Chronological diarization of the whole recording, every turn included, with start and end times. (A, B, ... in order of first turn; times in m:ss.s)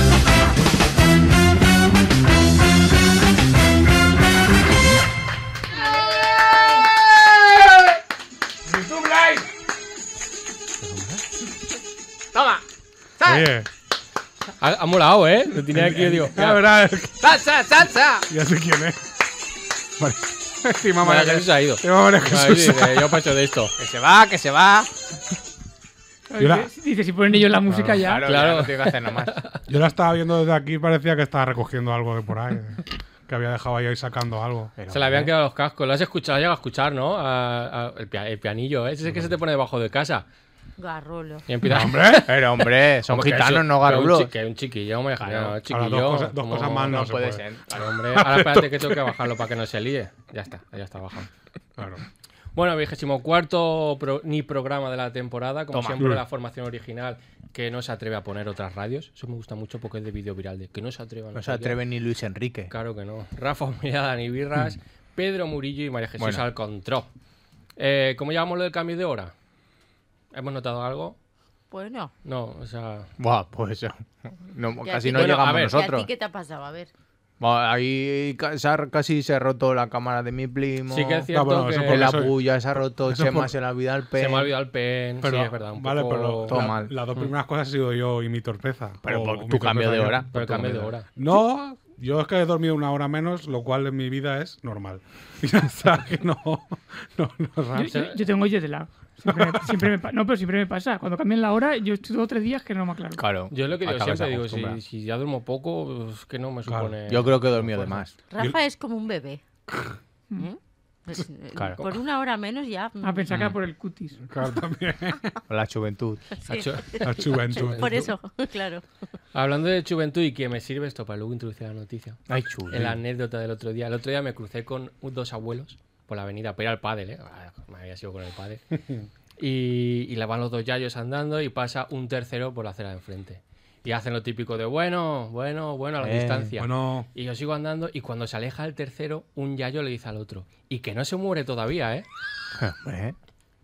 0:08.9-0:09.4 A
0:10.8-0:11.2 B
0:12.3-0:12.6 A
0:13.2-0:13.5 A
0:13.2-0:13.7 B
0:14.6-0:16.6 C
0:15.7-0:17.2 B
0:17.2-0:18.3 A
0:18.3-0:19.0 B
0:20.0-0:22.9 B
0:20.7-0:21.1 A
0:21.0-0:23.7 C
0:22.3-0:23.0 A
0:23.8-0:24.9 A
0:26.3-0:28.3 D
0:26.4-0:26.7 B
0:27.9-0:29.3 A
0:28.2-0:29.6 C
0:29.7-0:34.7 B
0:34.8-0:35.3 A
0:34.9-0:40.2 C
0:40.8-0:41.5 E
0:41.5-0:47.1 C
0:41.6-0:42.3 B
0:42.1-0:44.3 A
0:45.2-0:45.6 A
0:45.6-0:49.2 B
0:46.8-0:47.9 A
0:47.7-0:51.3 C
0:51.8-0:52.0 B
0:52.5-1:01.8 C
0:55.7-0:56.0 A
1:01.3-1:02.7 A
1:02.7-1:07.1 C
1:06.2-1:06.4 A
1:07.8-1:09.3 C
1:10.3-1:11.2 C
1:11.7-1:12.1 E
1:12.2-1:13.1 C
1:13.2-1:16.1 A
1:14.8-1:16.9 E
1:15.1-1:15.8 C
1:17.4-1:21.3 A
1:20.9-1:22.3 C
1:21.3-1:23.5 B
1:21.8-1:24.5 A
1:24.2-1:27.3 C
1:25.2-1:30.2 B
1:26.4-1:26.9 A
1:29.0-1:30.9 A
1:30.3-1:31.1 C
1:31.1-1:38.0 B
1:37.7-1:43.2 D
1:37.9-1:38.2 C
1:39.3-1:39.8 B
1:43.2-1:44.8 A
1:43.5-1:47.6 C
1:46.6-1:47.0 B
1:47.1-1:48.1 A
1:47.5-1:47.8 B
1:48.3-1:49.4 E
1:50.4-1:53.2 E
1:51.5-1:51.8 A
1:53.0-1:54.2 D
1:54.3-1:55.4 B
1:55.5-1:56.2 A
1:56.4-1:58.8 E
1:56.4-1:57.9 C
1:57.0-1:58.1 B
1:59.3-2:08.6 C
2:02.3-2:03.0 A
2:09.4-2:22.0 C
2:16.0-2:16.5 A
2:16.6-2:17.1 B
2:22.5-2:23.2 A